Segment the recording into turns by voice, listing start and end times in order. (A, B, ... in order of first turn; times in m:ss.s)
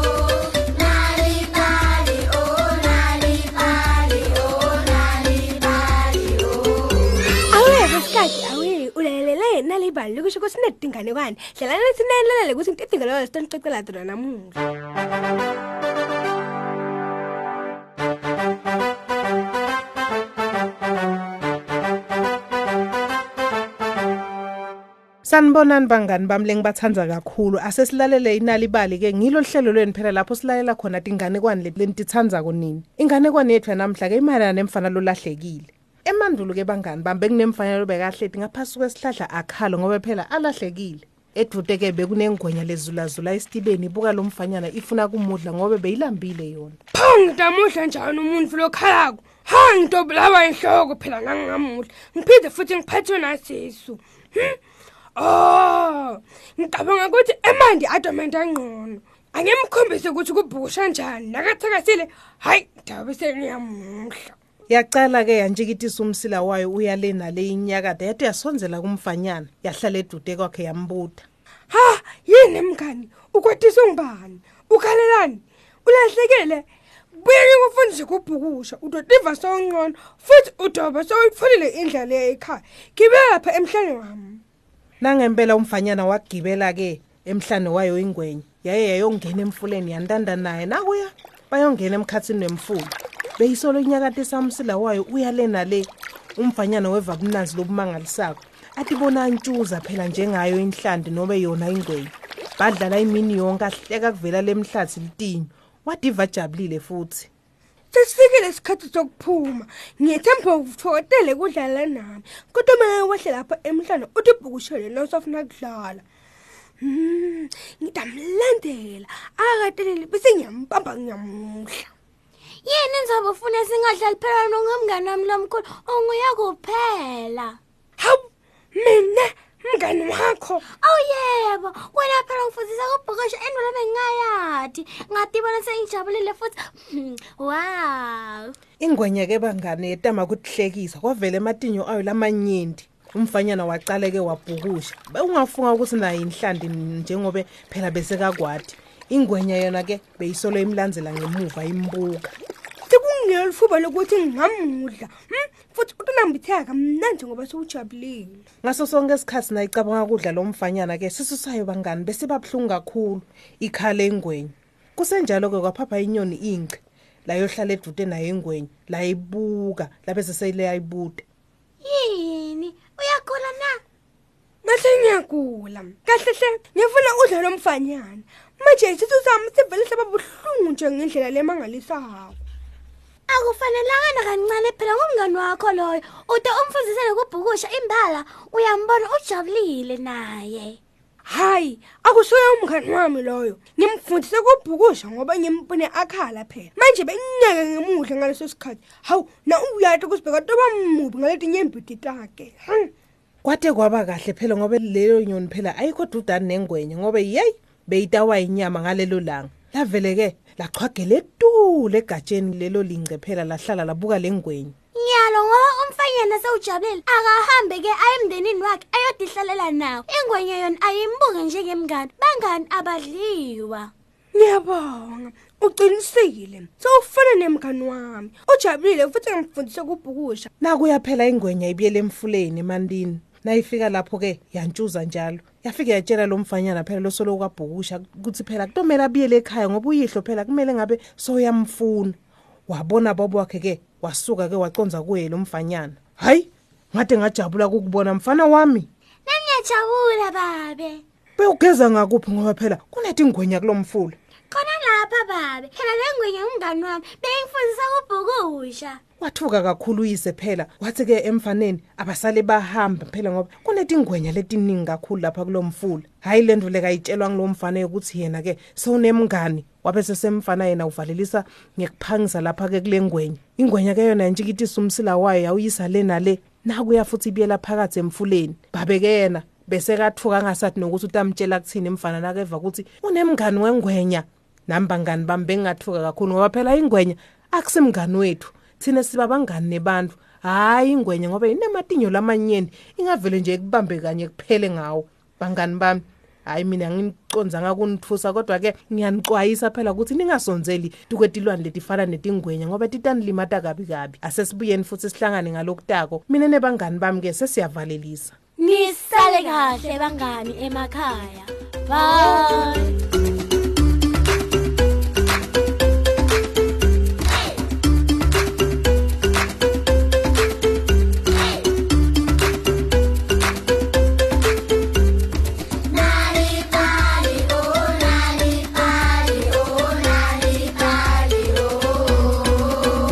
0:03.3-0:03.9 A
0:07.5-0:14.6 B
0:25.2-0:46.8 C
0:46.9-0:54.6 B
0:55.2-1:04.4 B
1:04.7-1:11.2 C
1:11.7-1:24.4 B
1:25.0-1:47.3 C
1:47.9-1:56.0 B
1:56.8-2:01.9 B
2:02.6-2:07.6 A
2:08.0-2:10.6 B
2:10.8-2:18.5 A
2:18.8-2:32.3 C
2:32.8-2:38.4 B
2:38.6-2:51.2 C
2:51.8-2:53.8 A
2:54.6-3:02.4 B
3:03.3-3:10.8 A
3:11.2-3:22.9 B
3:23.4-3:34.7 C
3:34.9-3:43.9 A
3:44.3-3:50.5 B
3:50.6-4:08.9 C
4:09.2-4:11.0 A
4:11.4-4:14.2 C
4:14.5-4:19.0 A
4:19.2-5:08.3 C
5:08.6-5:13.0 A
5:09.2-5:09.7 B
5:26.3-5:31.8 A